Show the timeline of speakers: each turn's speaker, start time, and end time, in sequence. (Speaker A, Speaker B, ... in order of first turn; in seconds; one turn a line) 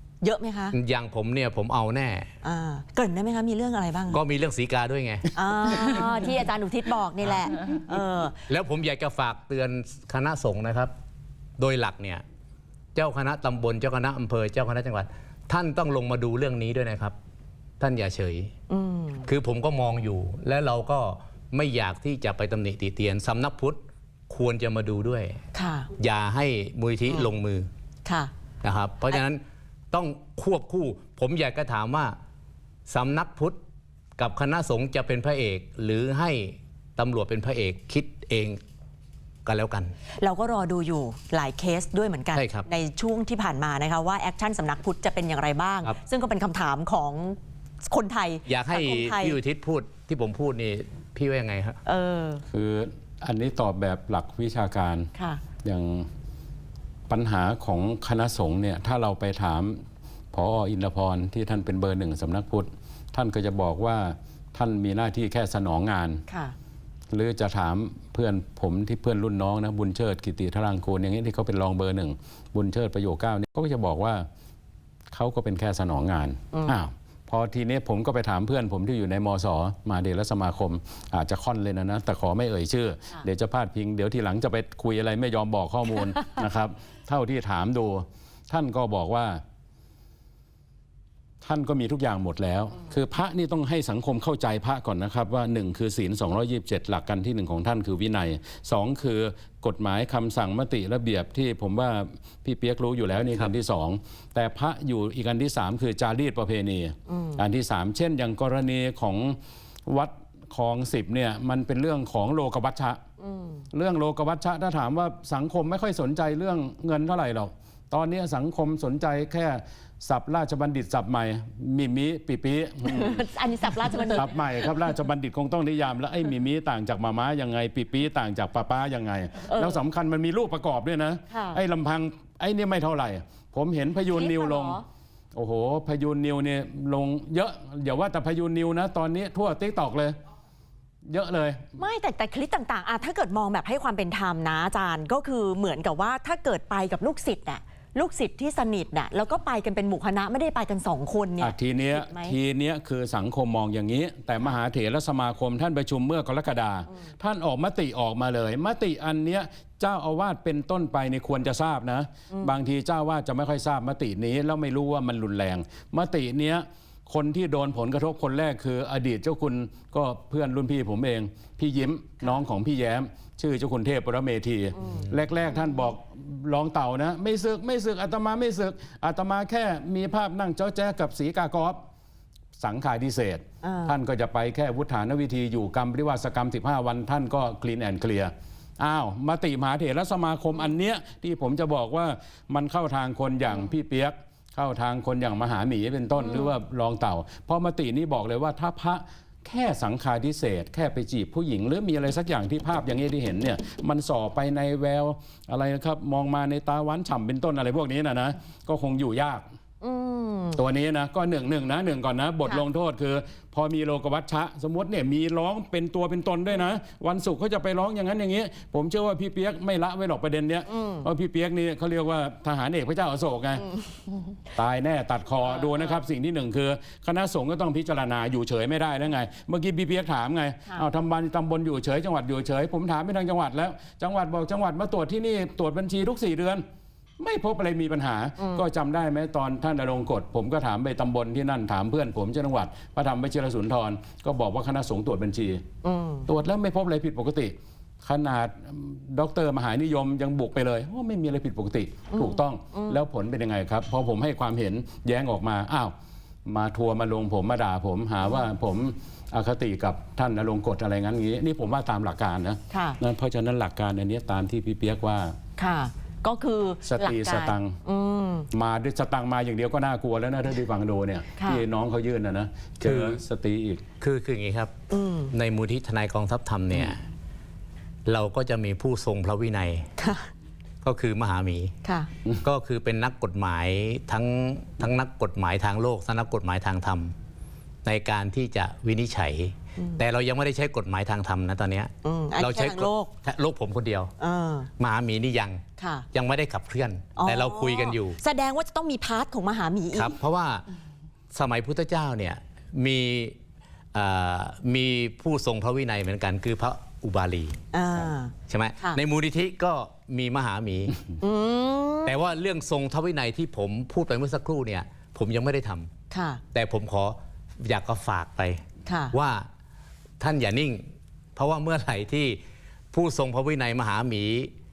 Speaker A: 0.2-0.8
Speaker B: 0.7-2.3
Speaker A: 2.4-4.2
Speaker B: 4.1-5.3
Speaker A: 5.3-8.4
Speaker C: 5.7-6.1
Speaker B: 8.5-10.9
Speaker B: 11.6-12.2
Speaker B: 12.9-17.1
Speaker B: 17.8-18.5
Speaker A: 18.7-19.3
Speaker B: 19.2-25.4
Speaker A: 25.5-25.9
Speaker B: 26.0-27.7
Speaker A: 28.1-28.3
Speaker B: 28.6-29.4
Speaker B: 29.9-32.1
Speaker B: 32.9-33.6
Speaker B: 34.2-38.6
Speaker B: 39.5-39.9
Speaker A: 40.2-49.4
Speaker B: 42.3-42.7
Speaker B: 48.5-51.8
Speaker A: 51.8-52.4
Speaker C: 52.5-55.1
Speaker A: 55.1-55.4
Speaker C: 55.6-56.1
Speaker C: 57.1-66.2
Speaker A: 66.3-66.5
Speaker C: 67.1-74.2
Speaker C: 75.1-89.4
Speaker C: 91.4-113.0
Speaker A: 107.1-107.4
Speaker A: 113.2-113.6
Speaker C: 113.7-123.2
Speaker A: 122.8-124.3
Speaker C: 123.9-134.8
Speaker A: 129.5-129.8
Speaker A: 131.3-131.6
Speaker A: 134.1-134.8
Speaker C: 135.3-140.2
Speaker C: 141.1-141.6
Speaker A: 141.8-152.3
Speaker C: 151.4-181.8
Speaker C: 182.6-209.4
Speaker A: 183.6-183.9
Speaker A: 196.2-196.5
Speaker A: 209.8-210.6
Speaker C: 210.6-223.6
Speaker A: 220.7-221.1
Speaker A: 223.7-224.0
Speaker C: 224.6-236.6
Speaker C: 237.2-245.6
Speaker A: 238.4-238.6
Speaker A: 245.8-246.3
Speaker C: 246.3-255.9
Speaker A: 252.1-253.0
Speaker C: 256.4-265.3
Speaker A: 262.7-263.0
Speaker A: 265.6-268.5
Speaker C: 266.8-267.8
Speaker C: 268.5-273.9
Speaker A: 271.4-271.6
Speaker B: 272.8-273.2
Speaker B: 274.0-274.7
Speaker A: 274.9-275.3
Speaker B: 275.3-277.0
Speaker B: 278.1-279.9
Speaker A: 280.0-280.3
Speaker B: 280.8-281.7
Speaker A: 281.8-282.1
Speaker B: 282.4-287.1
Speaker B: 287.9-294.1
Speaker A: 289.8-290.0
Speaker A: 292.0-293.1
Speaker A: 294.2-294.7
Speaker B: 294.8-295.6
Speaker A: 295.8-296.1
Speaker B: 296.1-298.2
Speaker A: 297.1-300.1
Speaker B: 299.9-300.6
Speaker B: 301.3-303.4
Speaker B: 303.9-307.6
Speaker A: 307.7-309.0
Speaker B: 308.5-311.1
Speaker A: 311.2-312.2
Speaker B: 312.0-315.9
Speaker A: 316.1-316.4
Speaker B: 316.5-319.5
Speaker A: 318.9-319.1
Speaker B: 320.2-322.4
Speaker B: 322.9-324.5